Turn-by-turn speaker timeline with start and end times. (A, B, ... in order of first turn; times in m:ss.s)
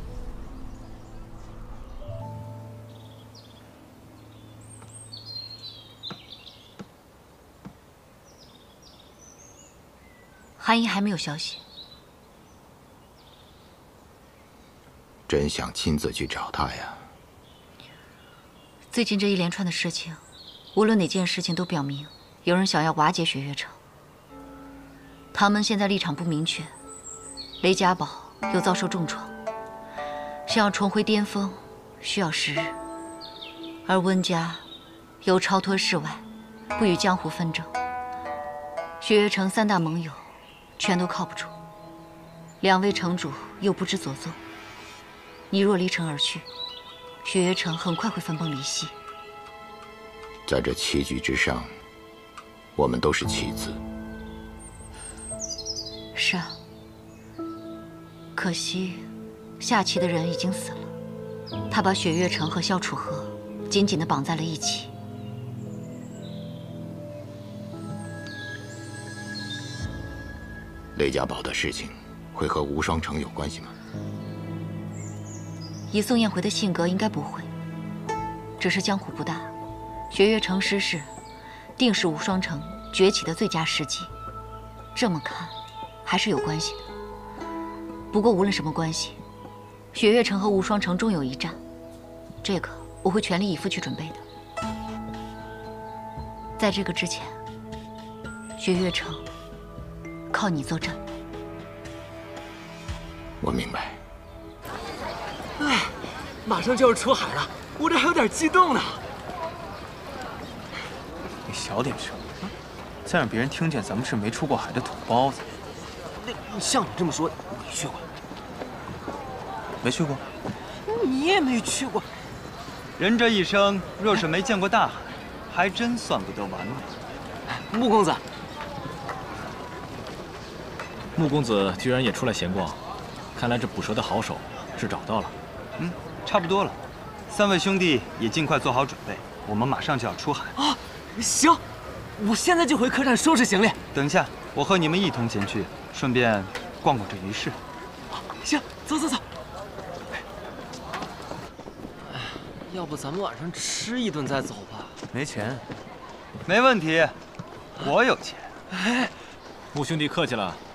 0:10.6-0:11.6 A
0:15.3-0:17.0 B
0:18.9-0:20.2 A
0:20.7-0:23.8 A
0:25.3-0:26.7 A
0:27.6-0:29.3 A
0:30.4-0:32.8 A
0:33.8-0:34.6 A
0:35.2-0:36.2 A
0:36.8-0:37.7 A
0:39.0-0:40.2 A
0:40.8-0:41.5 A
0:42.6-0:44.4 A
0:45.5-0:46.5 A
0:47.2-0:48.9 A
0:50.4-0:51.7 B
0:52.8-0:53.8 B
0:56.1-0:56.6 A
0:58.3-0:59.1 A
0:59.6-1:00.9 A
1:01.7-1:04.9 A
1:10.9-1:13.7 B
1:15.9-1:17.5 A
1:18.6-1:19.5 A
1:20.1-1:21.1 A
1:21.8-1:24.1 A
1:24.9-1:26.8 A
1:28.1-1:29.2 A
1:29.9-1:31.6 A
1:32.4-1:34.2 A
1:36.6-1:37.4 A
1:38.6-1:39.2 A
1:40.3-1:41.0 A
1:43.4-1:44.0 B
1:45.6-1:49.0 C
1:51.4-1:52.3 D
1:53.0-1:55.5 D
1:56.2-1:58.1 C
1:59.8-2:00.2 D
2:00.8-2:02.1 C
2:03.0-2:06.9 E
2:07.5-2:08.2 C
2:11.2-2:12.8 F
2:13.3-2:15.3 F
2:15.8-2:20.5 E
2:20.6-2:21.6 C
2:22.2-2:23.8 C
2:23.9-2:27.6 E
2:28.1-2:29.2 C
2:32.1-2:35.0 C
2:35.1-2:35.7 D
2:36.4-2:37.2 E
2:37.8-2:38.5 E
2:38.7-2:39.1 C
2:39.7-2:40.6 F